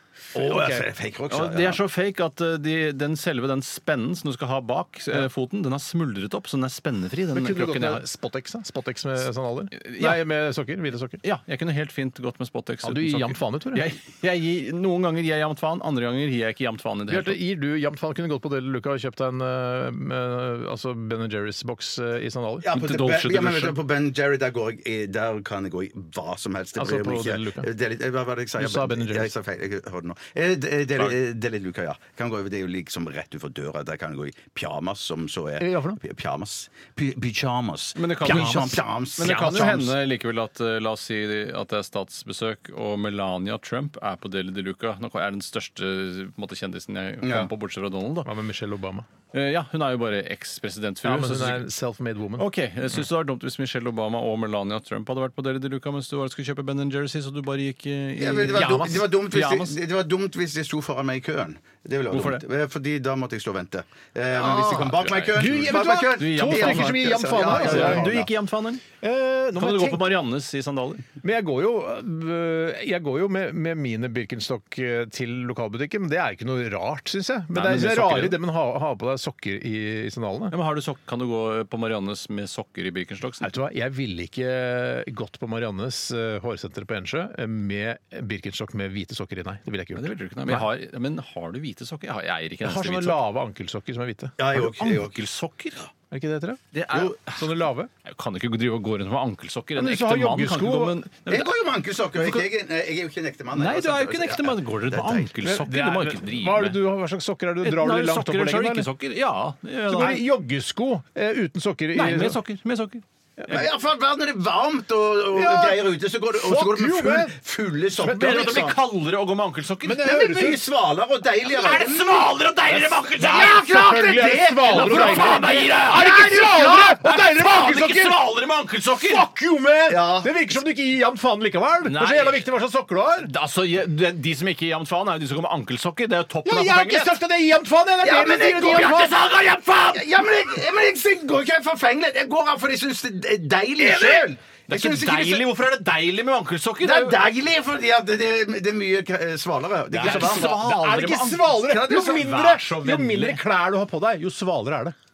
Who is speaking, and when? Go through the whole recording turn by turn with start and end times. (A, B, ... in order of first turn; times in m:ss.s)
0:00.3-0:00.8 A
0:00.3-0:01.8 B
0:01.3-0:08.0 C
0:07.3-0:11.2 A
0:09.8-0:10.2 C
0:11.2-0:17.4 C
0:12.8-0:13.9 A
0:17.1-0:22.7 A
0:22.6-0:39.9 B
0:22.7-0:23.8 C
0:26.8-0:27.7 A
0:28.6-0:29.3 A
0:35.6-0:36.0 A
0:38.0-0:48.3 C
0:38.2-0:39.8 A
0:47.2-0:47.5 B
0:48.2-0:49.1 A
0:49.3-0:51.7 C
0:51.0-0:52.4 A
0:52.4-0:59.8 C
0:58.2-1:08.3 B
0:58.5-0:59.0 A
1:02.1-1:02.4 C
1:04.5-1:08.8 C
1:05.3-1:08.1 A
1:09.0-1:10.0 A
1:09.6-1:11.0 C
1:11.2-1:20.5 A
1:17.5-1:18.4 C
1:20.5-1:23.5 C
1:23.4-1:30.7 A
1:30.0-1:33.2 C
1:32.6-1:34.5 A
1:34.4-1:35.2 B
1:34.6-1:35.8 C
1:36.1-1:36.6 A
1:36.7-1:41.5 C
1:37.2-1:37.9 A
1:39.8-1:41.0 A
1:41.3-1:45.3 B
1:42.2-1:42.4 C
1:43.5-1:46.8 C
1:45.4-1:48.9 A
1:47.6-1:50.2 C
1:49.9-1:52.4 A
1:51.9-1:53.6 C
1:53.5-1:58.8 B
1:55.3-1:57.4 A
1:57.9-1:58.7 A
1:58.1-2:00.1 C
1:59.8-2:00.6 A
2:00.0-2:02.3 B
2:01.4-2:03.7 C
2:02.7-2:08.2 A
2:03.2-2:06.2 B
2:04.6-2:09.2 C
2:09.0-2:13.3 A
2:09.9-2:10.3 B
2:11.8-2:12.4 C
2:13.2-2:17.2 C
2:16.4-2:19.2 A
2:18.0-2:19.1 B
2:18.4-2:20.1 C
2:19.9-2:25.5 B
2:23.8-2:27.2 C
2:26.8-2:30.5 B
2:29.9-2:34.9 A
2:30.0-2:33.4 C
2:31.6-2:32.4 B